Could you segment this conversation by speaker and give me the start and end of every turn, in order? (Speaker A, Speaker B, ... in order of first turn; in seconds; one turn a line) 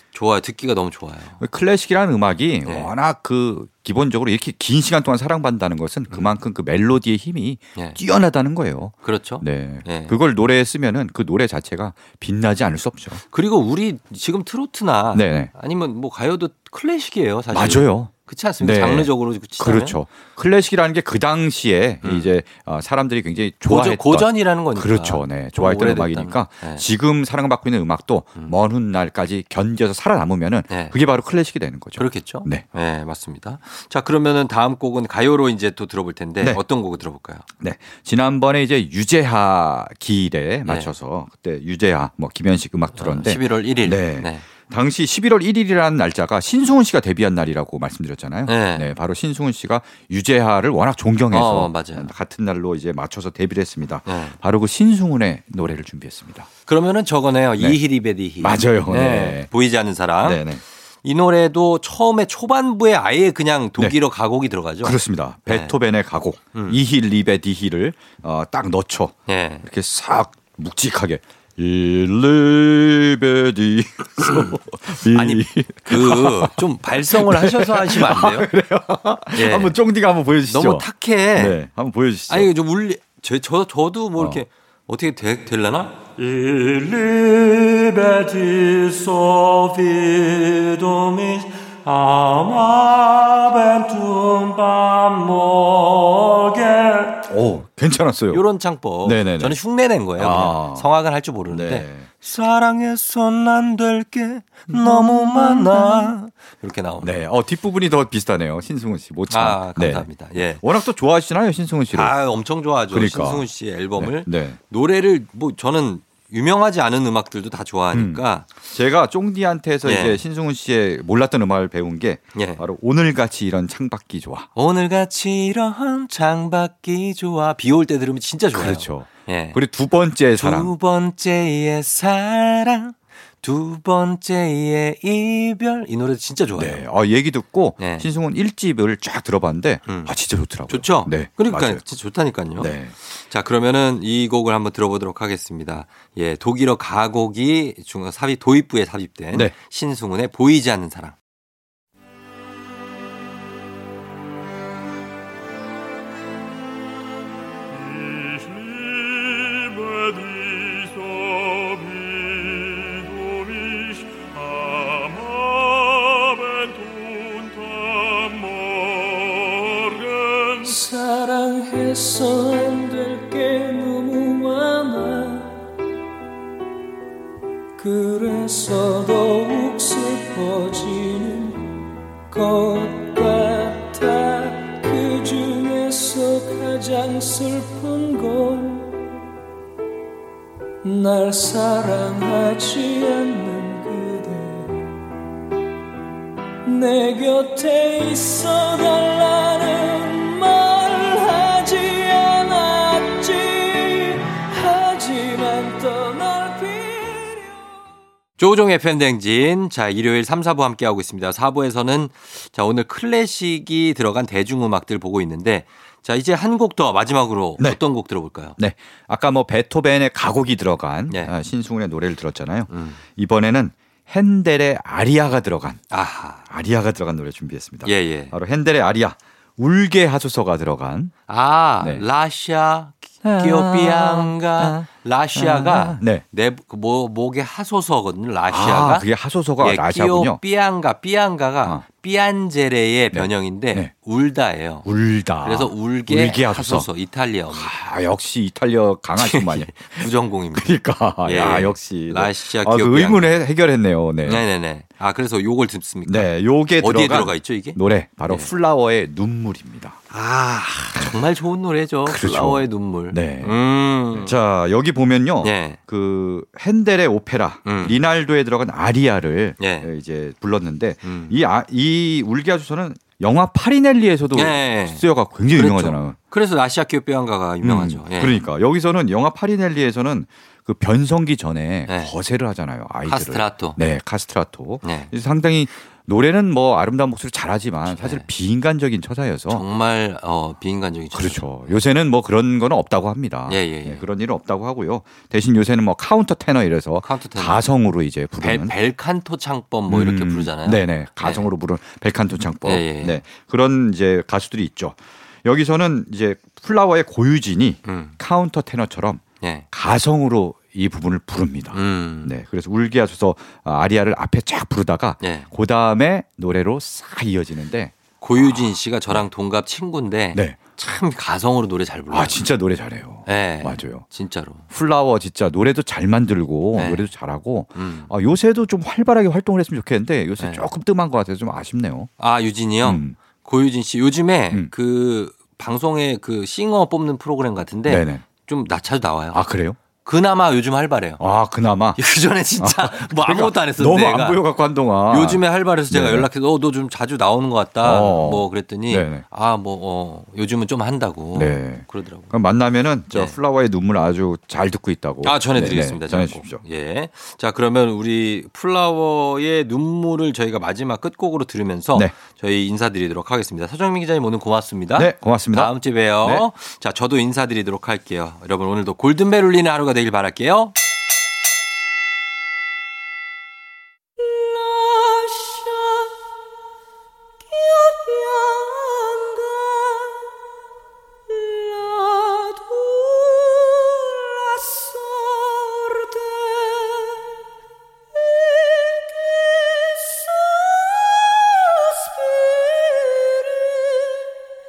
Speaker A: 0.1-1.4
Speaker B: 1.4-13.2
Speaker A: 2.6-2.9
Speaker A: 9.0-10.2
Speaker A: 13.2-20.0
Speaker B: 15.1-15.5
Speaker B: 17.5-32.6
Speaker A: 22.0-22.3
Speaker A: 23.7-26.8
Speaker A: 30.7-30.9
Speaker A: 32.0-37.4
Speaker B: 37.6-56.5
Speaker A: 40.7-40.9
Speaker A: 43.0-44.5
Speaker A: 48.5-48.9
Speaker A: 51.3-52.1
Speaker A: 54.0-54.4
Speaker A: 56.7-60.4
Speaker B: 58.4-59.5
Speaker B: 60.2-60.6
Speaker A: 61.0-65.0
Speaker B: 64.8-82.5
Speaker A: 65.5-65.7
Speaker A: 69.3-69.6
Speaker A: 75.1-78.5
Speaker A: 79.3-79.8
Speaker A: 80.5-81.5
Speaker A: 82.3-97.1
Speaker B: 84.2-84.4
Speaker B: 97.3-98.4
Speaker A: 98.3-107.1
Speaker B: 99.0-99.6
Speaker B: 100.2-100.9
Speaker B: 101.5-102.1
Speaker B: 105.5-105.8
Speaker B: 107.0-112.2
Speaker A: 109.3-110.6
Speaker A: 111.9-118.5
Speaker B: 112.9-114.6
Speaker B: 117.9-124.5
Speaker A: 119.8-120.2
Speaker A: 122.3-122.6
Speaker A: 124.5-129.6
Speaker B: 128.5-130.7
Speaker A: 130.4-136.8
Speaker B: 136.5-141.8
Speaker A: 137.8-138.0
Speaker A: 139.9-140.1
Speaker A: 140.7-151.2
Speaker B: 142.6-142.9
Speaker C: 170.6-175.5
Speaker C: 177.8-181.7
Speaker C: 182.3-188.9
Speaker C: 190.8-194.8
Speaker C: 196.6-207.7
Speaker A: 208.4-218.6
Speaker B: 218.6-225.8
Speaker A: 222.7-223.0
Speaker A: 225.9-226.5
Speaker B: 226.5-231.1
Speaker A: 227.8-228.3
Speaker A: 231.3-239.1
Speaker B: 231.8-232.1
Speaker B: 233.2-236.2
Speaker B: 238.5-240.4
Speaker A: 239.6-244.9
Speaker B: 243.1-243.9
Speaker B: 244.8-246.9
Speaker A: 245.4-247.7
Speaker B: 247.5-254.4
Speaker A: 249.2-253.3
Speaker A: 254.2-256.3
Speaker B: 256.1-260.0
Speaker A: 256.8-258.5
Speaker A: 260.1-264.3
Speaker B: 260.9-261.2
Speaker B: 262.1-263.6
Speaker B: 264.1-276.2
Speaker A: 265.4-265.8
Speaker A: 267.6-267.9
Speaker A: 269.6-269.9
Speaker A: 271.0-271.3
Speaker A: 274.3-275.0
Speaker A: 275.5-278.4
Speaker B: 277.6-289.6
Speaker A: 283.1-283.8
Speaker A: 284.8-285.1
Speaker A: 287.9-288.3
Speaker A: 289.5-291.7
Speaker B: 291.1-298.8
Speaker A: 293.5-294.0
Speaker A: 297.0-297.6
Speaker A: 298.4-301.5
Speaker B: 299.9-319.2
Speaker A: 302.6-303.2
Speaker A: 307.8-308.1
Speaker A: 309.4-309.7
Speaker A: 311.7-312.3
Speaker A: 315.2-315.5
Speaker A: 318.2-322.4
Speaker B: 322.1-324.0
Speaker A: 323.2-324.6
Speaker B: 324.7-332.1
Speaker A: 326.8-327.1
Speaker A: 327.8-328.1
Speaker A: 332.2-339.4
Speaker B: 332.8-333.1
Speaker B: 337.9-338.3
Speaker B: 339.3-339.8
Speaker A: 340.0-341.2
Speaker B: 341.2-342.0
Speaker A: 342.0-344.4
Speaker B: 342.6-346.3
Speaker A: 345.1-352.3
Speaker B: 347.8-349.2
Speaker B: 351.3-356.6
Speaker A: 355.2-370.7
Speaker B: 364.9-366.4
Speaker C: 374.2-376.1
Speaker C: 377.4-380.2
Speaker C: 381.3-387.3
Speaker C: 388.1-394.2